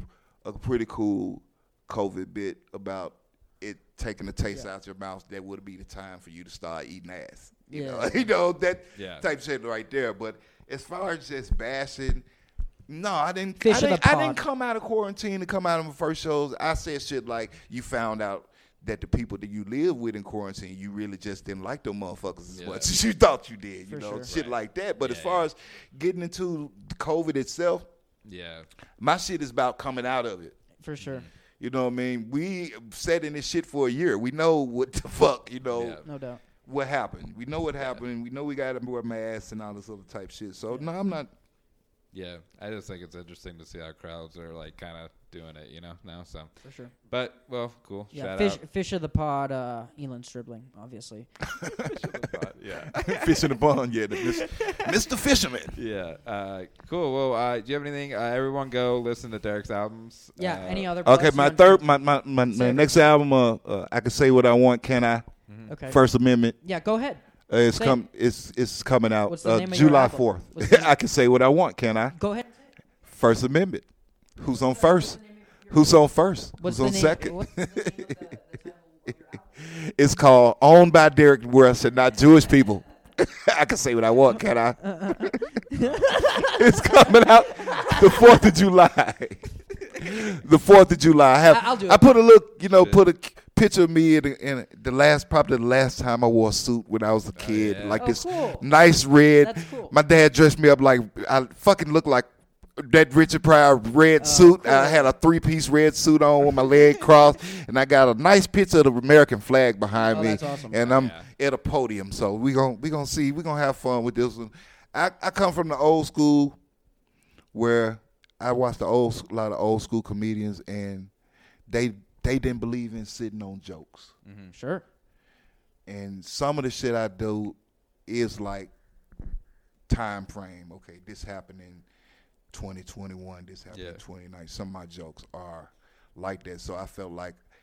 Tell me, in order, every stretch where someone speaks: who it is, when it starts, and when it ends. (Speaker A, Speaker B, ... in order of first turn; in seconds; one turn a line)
Speaker A: 0.4-12.2
Speaker B: 7.7-8.3
Speaker C: 9.0-9.2
Speaker A: 12.9-27.9
Speaker B: 13.6-14.4
Speaker C: 22.5-22.9
Speaker B: 23.9-24.3
Speaker C: 24.3-25.5
Speaker C: 28.2-28.7
Speaker A: 29.0-30.6
Speaker B: 30.8-31.3
Speaker C: 31.0-31.3
Speaker A: 31.6-36.0
Speaker C: 35.7-36.1
Speaker B: 36.0-36.4
Speaker A: 36.6-41.3
Speaker C: 37.8-38.0
Speaker C: 42.1-46.5
Speaker B: 46.6-46.9
Speaker C: 47.0-48.6
Speaker B: 48.1-51.3
Speaker A: 51.5-51.9
Speaker C: 51.9-53.6
Speaker A: 53.0-55.8
Speaker C: 54.1-55.1
Speaker C: 55.7-61.0
Speaker B: 60.4-61.8
Speaker A: 61.0-65.3
Speaker B: 62.5-63.0
Speaker C: 65.5-65.8
Speaker B: 65.7-66.0
Speaker A: 65.9-66.6
Speaker B: 66.6-67.2
Speaker A: 67.5-72.2
Speaker B: 69.3-70.9
Speaker B: 72.2-72.5
Speaker A: 73.0-73.9
Speaker A: 74.4-78.4
Speaker B: 74.5-75.7
Speaker B: 76.6-79.1
Speaker A: 79.1-85.5
Speaker B: 84.9-88.5
Speaker C: 85.8-86.1
Speaker A: 86.1-116.6
Speaker B: 91.5-92.1
Speaker C: 97.3-98.1
Speaker B: 98.0-98.7
Speaker B: 99.4-99.9
Speaker B: 104.2-105.1
Speaker B: 110.0-110.8
Speaker C: 110.7-111.3
Speaker A: 117.5-121.1
Speaker A: 121.7-124.1
Speaker C: 124.2-124.5
Speaker B: 124.5-124.8
Speaker A: 125.9-128.7
Speaker A: 129.9-131.8
Speaker A: 132.5-137.4
Speaker C: 133.7-134.0